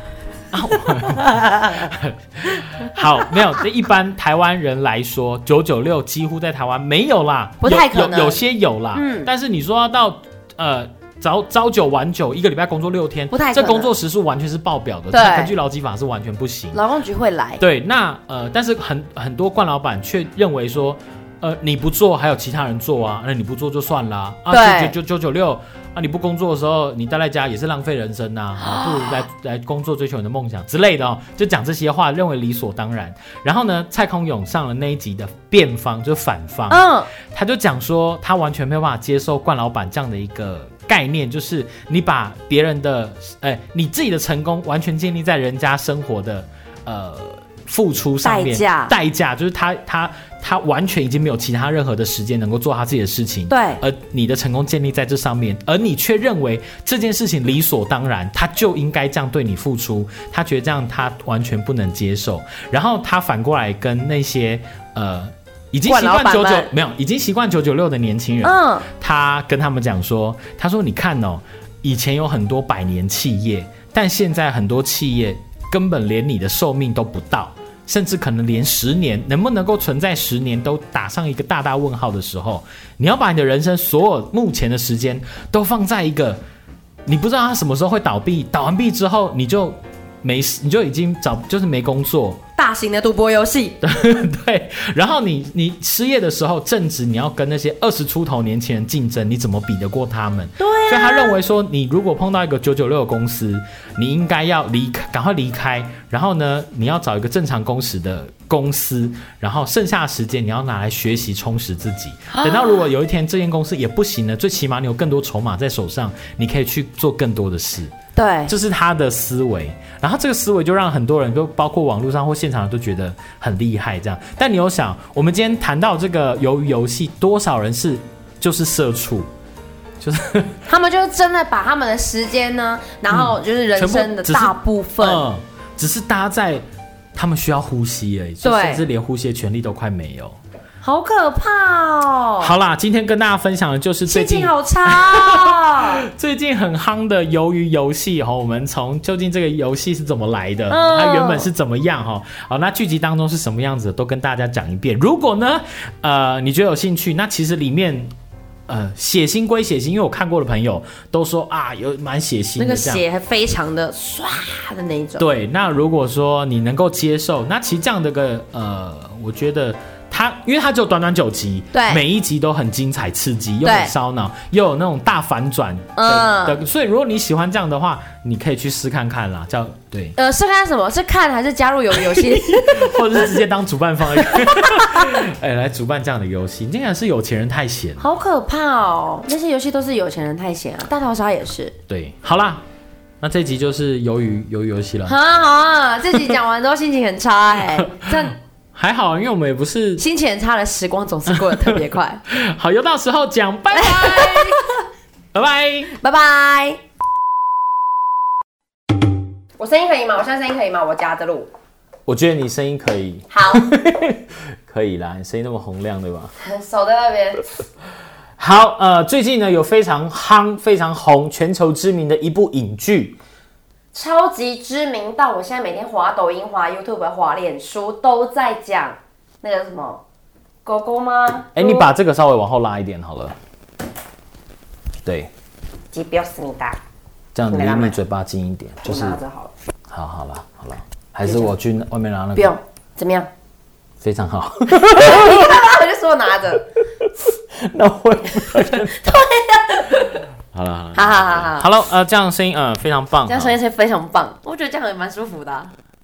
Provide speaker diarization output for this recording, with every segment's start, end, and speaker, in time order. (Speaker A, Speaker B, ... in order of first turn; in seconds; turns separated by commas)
Speaker A: 0.5-16.8, Speaker B: 0.7-1.9, Speaker B: 2.6-3.4, Speaker B: 7.6-8.4, Speaker B: 8.9-9.3, Speaker B: 13.3-13.9, Speaker B: 15.1-15.5, Speaker B: 16.7-17.6, Speaker A: 17.6-86.4, Speaker B: 24.5-24.9, Speaker B: 28.6-29.2, Speaker B: 36.7-37.1, Speaker B: 48.2-48.9, Speaker B: 53.5-53.8, Speaker B: 65.9-66.7, Speaker B: 68.4-68.9, Speaker A: 87.1-92.4, Speaker B: 92.6-93.8, Speaker A: 93.8-117.9, Speaker B: 100.6-101.4, Speaker B: 112.3-112.9, Speaker B: 118.2-118.5, Speaker A: 118.5-129.3, Speaker A: 130.0-130.6, Speaker B: 130.7-135.3, Speaker A: 133.1-136.6, Speaker A: 137.1-140.4, Speaker B: 138.4-138.8, Speaker B: 140.8-142.5, Speaker A: 142.4-158.1, Speaker B: 144.1-146.0, Speaker B: 150.7-151.5, Speaker A: 158.7-163.0, Speaker B: 162.6-165.3, Speaker A: 165.2-180.2, Speaker B: 171.7-172.0, Speaker B: 173.6-173.9, Speaker B: 175.9-176.6, Speaker B: 180.2-183.3, Speaker A: 181.9-188.1, Speaker B: 184.2-185.2, Speaker B: 188.0-191.8, Speaker A: 191.9-192.6, Speaker A: 193.2-195.1, Speaker B: 195.0-198.3, Speaker A: 197.7-200.0, Speaker B: 200.0-202.2, Speaker A: 201.3-201.8, Speaker A: 202.3-204.6, Speaker B: 203.7-204.8, Speaker A: 205.3-205.9, Speaker B: 205.9-206.8, Speaker B: 209.6-211.5, Speaker A: 212.1-216.3, Speaker B: 213.3-213.7, Speaker B: 216.4-217.4, Speaker A: 218.4-223.2, Speaker B: 223.9-230.0, Speaker B: 230.6-231.9, Speaker A: 231.5-233.4, Speaker A: 235.0-235.3, Speaker B: 235.9-236.8, Speaker A: 237.3-239.2, Speaker B: 237.5-238.0, Speaker B: 238.8-239.5, Speaker A: 239.9-242.5, Speaker B: 241.2-241.5, Speaker B: 242.3-243.3, Speaker A: 244.0-245.7, Speaker B: 244.7-246.6, Speaker A: 247.0-249.2, Speaker B: 248.4-250.2, Speaker A: 250.5-253.6, Speaker B: 250.9-251.7, Speaker B: 253.2-255.7